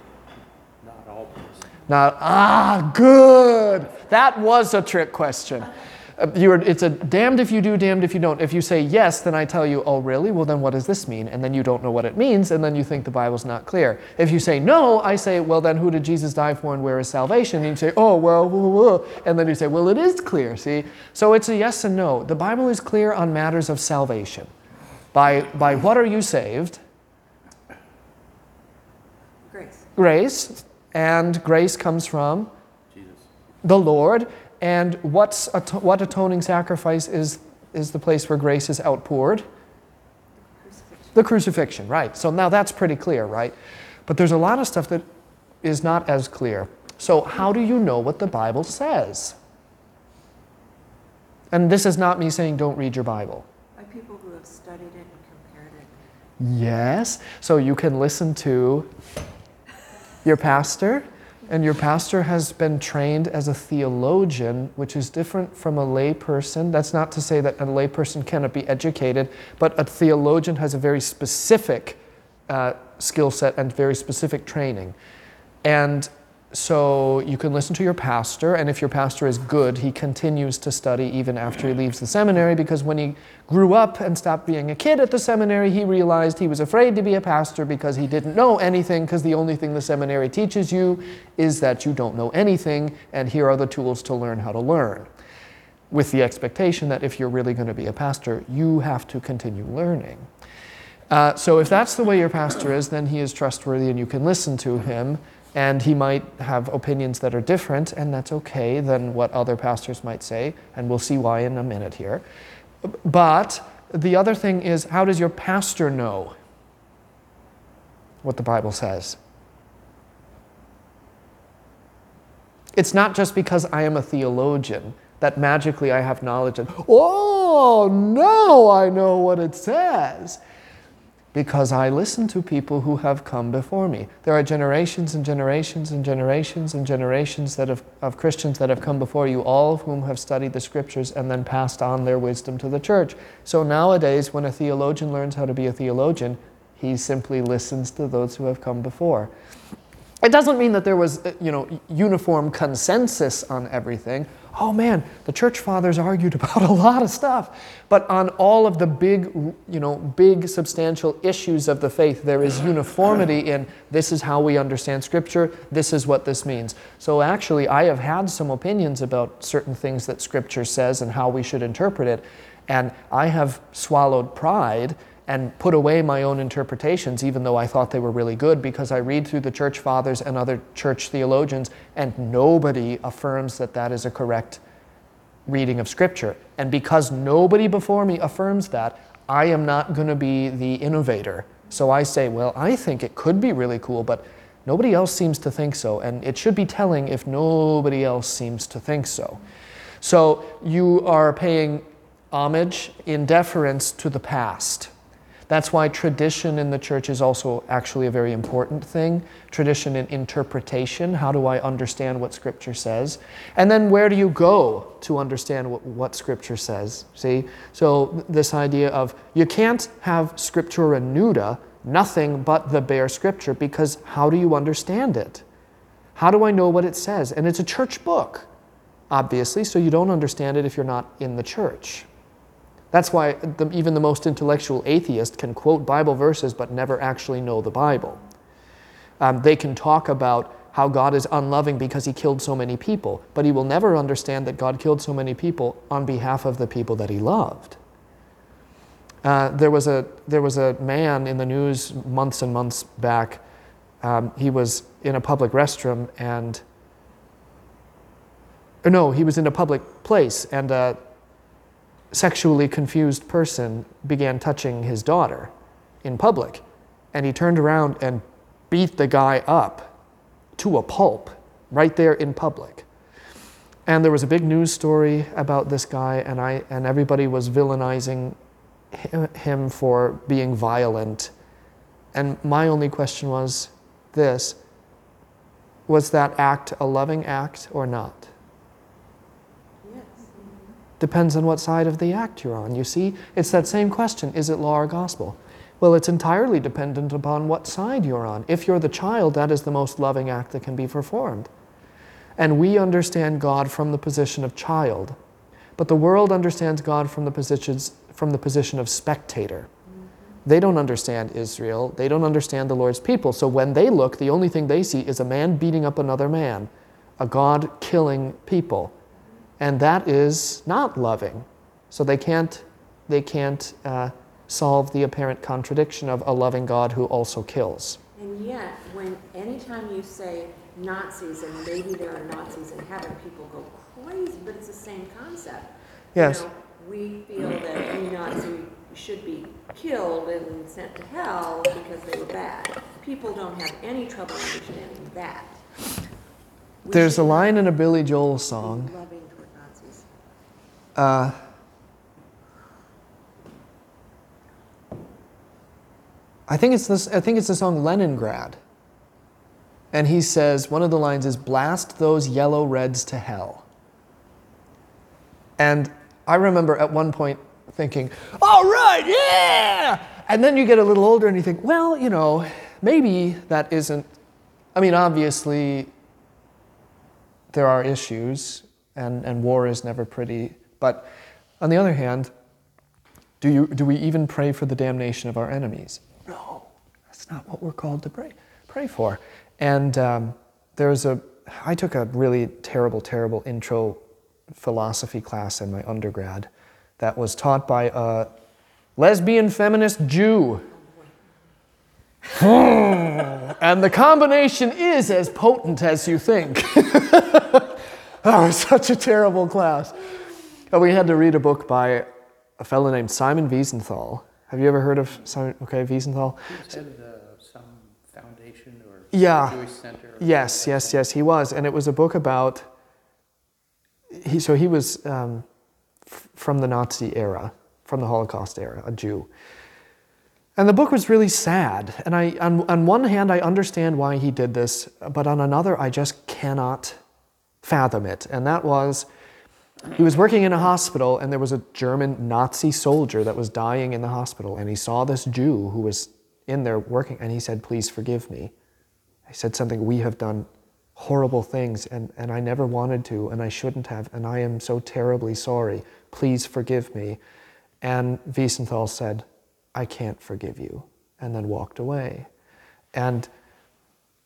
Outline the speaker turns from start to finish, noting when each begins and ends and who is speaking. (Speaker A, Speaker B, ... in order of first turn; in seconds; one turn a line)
Speaker A: 0.8-1.7
Speaker B: 1.9-24.5
Speaker B: 25.1-26.8
Speaker C: 29.4-29.9
Speaker B: 29.9-32.5
Speaker A: 32.9-33.3
Speaker B: 33.6-39.4
Speaker C: 40.4-41.2
Speaker B: 41.1-43.5
Speaker B: 44.0-45.0
Speaker B: 45.6-49.4
Speaker B: 51.5-53.5
Speaker C: 53.8-55.9
Speaker B: 56.4-58.9
Speaker B: 60.2-75.0
Speaker B: 75.6-95.1
Speaker B: 95.9-100.3
Speaker B: 101.1-112.2
Speaker B: 112.8-116.4
Speaker B: 118.2-119.2
Speaker B: 122.7-130.4
Speaker B: 131.3-149.3
Speaker B: 150.2-184.6
Speaker B: 185.5-199.4
Speaker B: 200.0-204.9
Speaker B: 205.5-225.4
Speaker B: 226.2-228.5
Speaker B: 229.1-232.1
Speaker B: 232.9-238.2
Speaker B: 239.2-247.8
Speaker B: 249.2-253.4
Speaker B: 254.0-256.6
Speaker B: 258.8-261.0
Speaker B: 262.1-265.5
Speaker B: 266.0-269.9
Speaker B: 270.6-272.9
Speaker B: 273.9-278.4
Speaker B: 278.9-281.3
Speaker B: 282.1-284.6
Speaker B: 285.9-288.3
Speaker C: 289.8-290.7
Speaker B: 291.0-301.5
Speaker B: 302.4-305.1
Speaker B: 305.8-309.7
Speaker B: 310.4-316.7
Speaker B: 317.2-318.9
Speaker B: 319.6-328.0
Speaker C: 328.2-345.6
Speaker B: 336.1-336.4
Speaker C: 346.8-347.7
Speaker B: 346.9-348.9
Speaker C: 348.6-350.1
Speaker B: 350.9-351.4
Speaker B: 356.5-358.6
Speaker B: 359.9-363.6
Speaker B: 365.6-374.1
Speaker B: 374.8-375.9
Speaker B: 377.5-381.1
Speaker B: 381.6-382.3
Speaker B: 383.4-394.0
Speaker B: 394.6-396.5
Speaker B: 397.0-398.3
Speaker B: 399.0-400.7
Speaker B: 402.3-410.0
Speaker B: 410.7-412.1
Speaker B: 412.6-416.7
Speaker A: 416.4-421.0
Speaker B: 419.1-419.6
Speaker B: 420.2-422.7
Speaker B: 424.1-425.4
Speaker B: 426.1-429.3
Speaker B: 430.6-437.0
Speaker B: 437.6-439.1
Speaker B: 439.9-448.5
Speaker B: 449.3-457.2
Speaker B: 457.8-462.3
Speaker B: 462.9-463.3